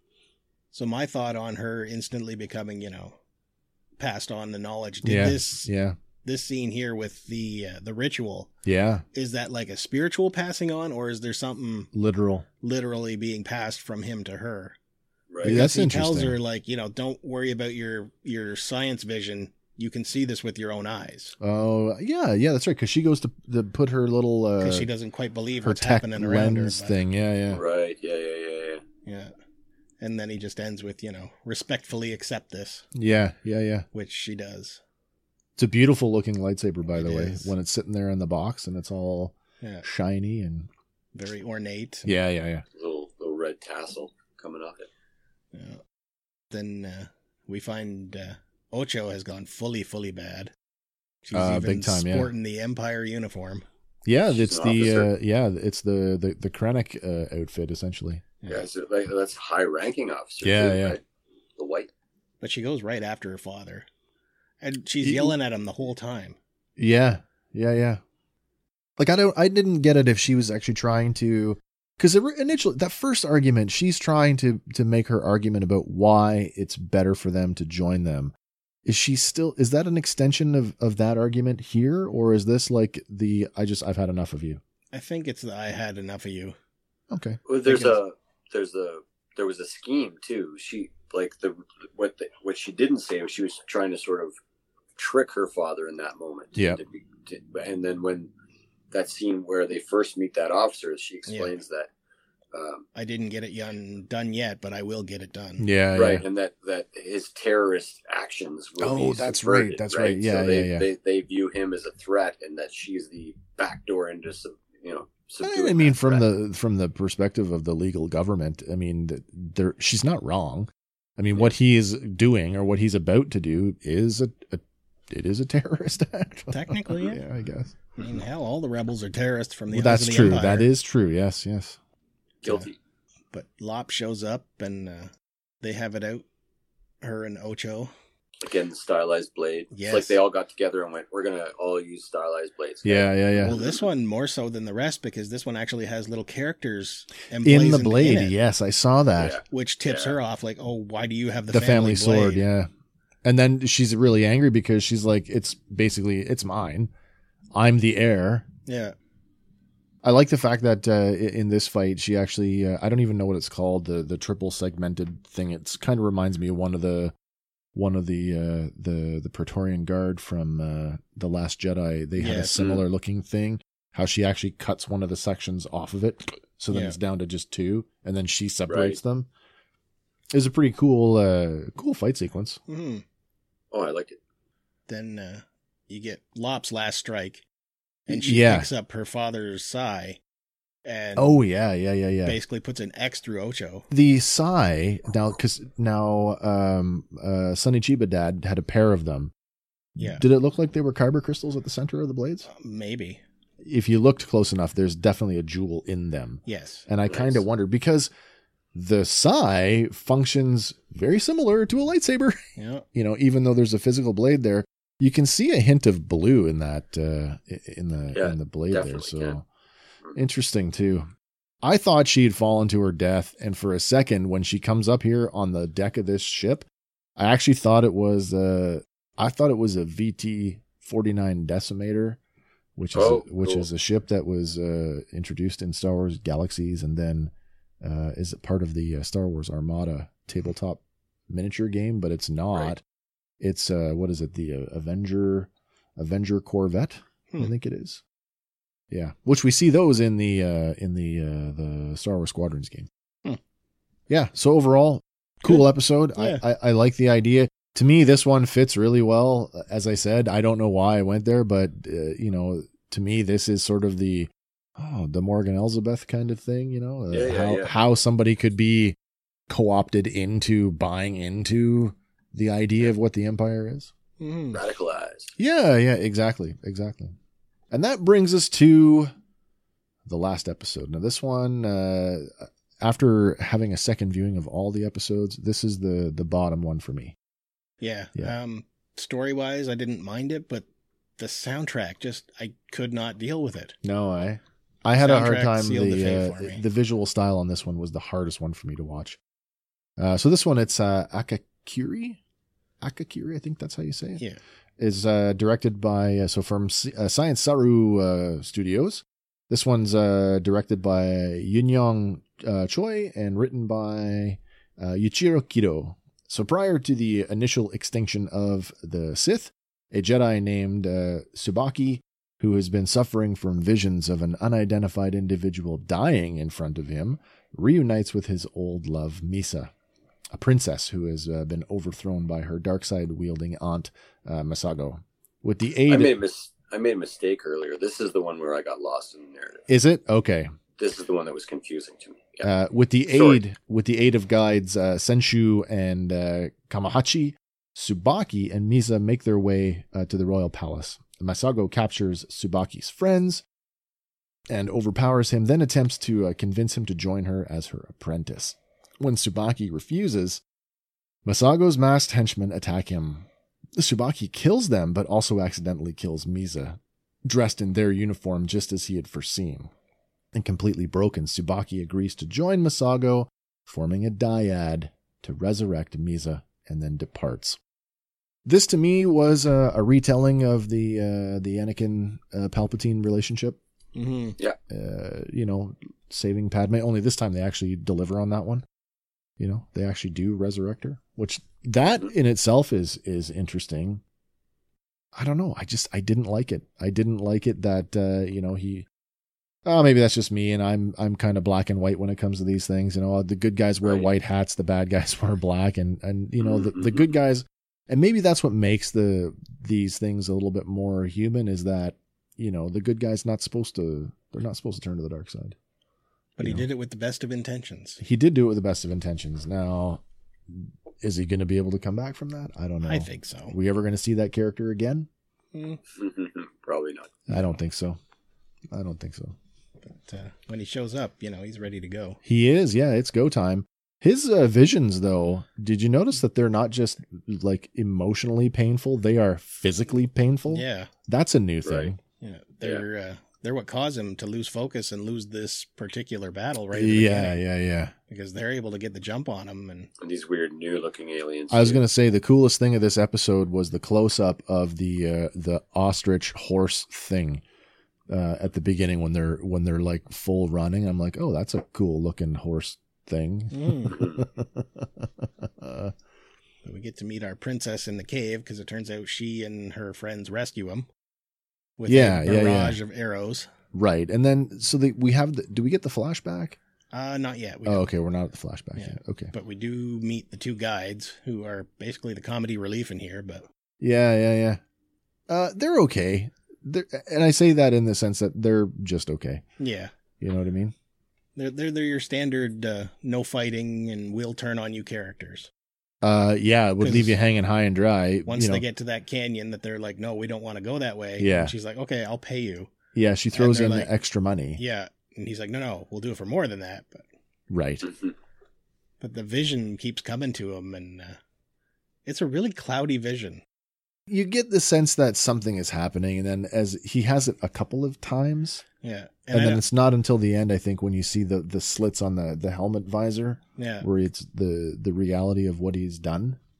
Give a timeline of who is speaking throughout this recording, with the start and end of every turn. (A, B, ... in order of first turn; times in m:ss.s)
0:00.7-0:03.2 A
0:04.0-0:05.7 A
0:05.0-0:06.0 B
0:06.2-0:08.5 A
0:08.6-0:09.0 B
0:09.1-0:11.9 A
0:11.9-0:12.4 B
0:12.6-0:14.8 A
0:15.3-0:15.6 C
0:15.4-0:21.3 A
0:15.4-0:16.4 B
0:21.4-0:24.9 B
0:24.6-0:27.0 A
0:25.6-0:27.6 B
0:27.5-0:28.8 C
0:29.0-0:29.3 A
0:30.0-0:32.8 A
0:32.9-0:33.8 B
0:33.9-0:34.8 A
0:35.6-0:40.7 B
0:36.9-0:37.5 A
0:41.1-0:42.1 A
0:42.0-0:42.6 B
0:42.8-0:44.9 C
0:45.5-0:45.8 A
0:46.5-0:50.5 A
0:51.2-0:53.6 A
0:51.3-0:52.3 B
0:54.0-0:58.2 B
0:54.3-0:55.1 C
0:58.4-0:58.7 A
0:58.5-1:01.0 C
1:00.4-1:01.0 B
1:01.6-1:01.9 C
1:02.4-1:03.9 A
1:04.6-1:06.4 A
1:05.0-1:05.3 B
1:06.8-1:08.0 B
1:09.0-1:18.3 B
1:18.8-1:24.6 B
1:24.9-1:26.6 A
1:27.1-1:27.4 B
1:27.5-1:34.3 C
1:27.6-1:28.0 A
1:35.0-1:38.3 C
1:36.5-1:36.8 B
1:38.9-1:41.9 C
1:41.3-1:41.5 A
1:42.5-1:42.8 C
1:42.9-1:45.7 A
1:45.6-1:46.2 B
1:45.9-1:56.3 C
1:48.8-1:50.9 B
1:55.4-2:07.8 B
2:06.5-2:07.2 A
2:08.0-2:10.7 A
2:09.7-2:11.8 B
2:12.4-2:12.8 C
2:13.3-2:15.1 A
2:15.6-2:16.2 A
2:17.0-2:17.9 A
2:18.4-2:23.8 C
2:19.7-2:20.2 A
2:22.8-2:23.6 B
2:23.4-2:28.3 A
2:27.4-2:29.4 B
2:29.2-2:30.2 C
2:29.5-2:32.4 A
2:31.5-2:32.7 B
2:33.2-2:36.9 B
2:37.5-2:38.4 B
2:38.7-2:38.9 A
2:40.0-2:47.1 B
2:47.7-2:59.3 B
2:52.2-2:52.6 A
2:52.5-2:52.8 C
2:56.7-2:57.0 A
2:58.7-2:59.0 C
3:00.3-3:02.6 B
3:02.7-3:03.0 A
3:03.7-3:04.2 C
3:04.9-3:07.4 A
3:08.1-3:10.2 A
3:08.1-3:08.7 B
3:10.8-3:11.3 A
3:11.2-3:12.4 B
3:12.2-3:13.9 A
3:13.9-3:19.3 B
3:20.0-3:22.5 B
3:20.0-3:20.2 A
3:22.5-3:23.2 A
3:23.6-3:28.1 B
3:26.4-3:26.8 A
3:27.1-3:27.4 C
3:28.7-3:32.4 B
3:32.6-3:32.8 A
3:32.9-3:39.4 B
3:38.1-3:39.4 C
3:40.2-3:41.1 B
3:41.6-3:46.6 B
3:47.2-3:52.2 B
3:52.8-4:02.8 B
3:52.9-3:53.7 C
4:03.4-4:08.0 B
4:08.9-4:12.9 B
4:14.1-4:29.0 B
4:16.2-4:16.4 A
4:27.1-4:27.7 C
4:29.5-4:33.9 B
4:34.2-4:34.6 A
4:34.5-4:35.3 C
4:35.4-4:37.1 B
4:37.7-4:39.1 B
4:40.0-4:47.1 B
4:47.8-4:50.6 A
4:51.2-4:53.8 A
4:53.8-4:59.2 B
4:55.0-4:56.6 A
5:00.0-5:02.2 B
5:02.8-5:04.2 B
5:04.8-5:29.7 B
5:30.3-5:36.2 B
5:35.9-5:39.6 C
5:39.7-5:40.5 B
5:40.8-5:42.5 C
5:42.4-5:53.4 B
5:43.1-5:43.4 C
5:54.5-6:00.4 B
6:01.2-6:09.7 B
6:10.3-6:17.6 B
6:18.4-6:23.6 B
6:23.9-6:24.4 A
6:24.7-6:28.6 B
6:29.4-6:34.0 B
6:35.1-6:38.9 B
6:39.6-6:55.6 B
6:43.8-6:44.1 C
6:46.4-6:47.1 C
6:56.4-6:58.0 A
6:56.4-6:56.6 B
6:58.0-7:05.1 B
7:02.8-7:03.5 A
7:05.5-7:05.8 A
7:05.9-7:07.2 C
7:07.3-7:08.0 B
7:08.7-7:09.3 B
7:09.9-7:12.2 A
7:12.2-7:22.0 B
7:20.5-7:20.9 A
7:21.6-7:21.9 C
7:22.2-7:27.4 A
7:26.7-7:27.9 B
7:28.1-7:29.9 A
7:30.0-7:31.8 C
7:31.5-7:37.4 B
7:38.1-7:45.9 B
7:43.5-7:44.0 A
7:43.9-7:44.2 C
7:46.6-7:50.9 A
7:51.8-7:53.5 A
7:51.8-7:52.8 B
7:53.7-7:56.6 B
7:56.9-7:57.9 A
7:57.6-7:59.3 B
7:58.8-8:03.5 A
8:03.8-8:04.6 B
8:05.3-8:09.4 B
8:09.6-8:09.9 A
8:10.2-8:10.7 B
8:11.4-8:15.5 A
8:16.0-8:18.6 B
8:16.8-8:17.2 A
8:18.3-8:22.7 A
8:21.2-8:21.5 B
8:22.9-8:24.6 B
8:23.3-8:23.9 A
8:24.6-8:27.0 A
8:27.5-8:27.8 B
8:27.8-8:28.1 C
8:29.0-8:31.2 A
8:32.0-8:33.4 A
8:34.1-8:38.6 B
8:38.8-8:39.6 A
8:39.3-8:46.4 B
8:43.6-8:43.9 A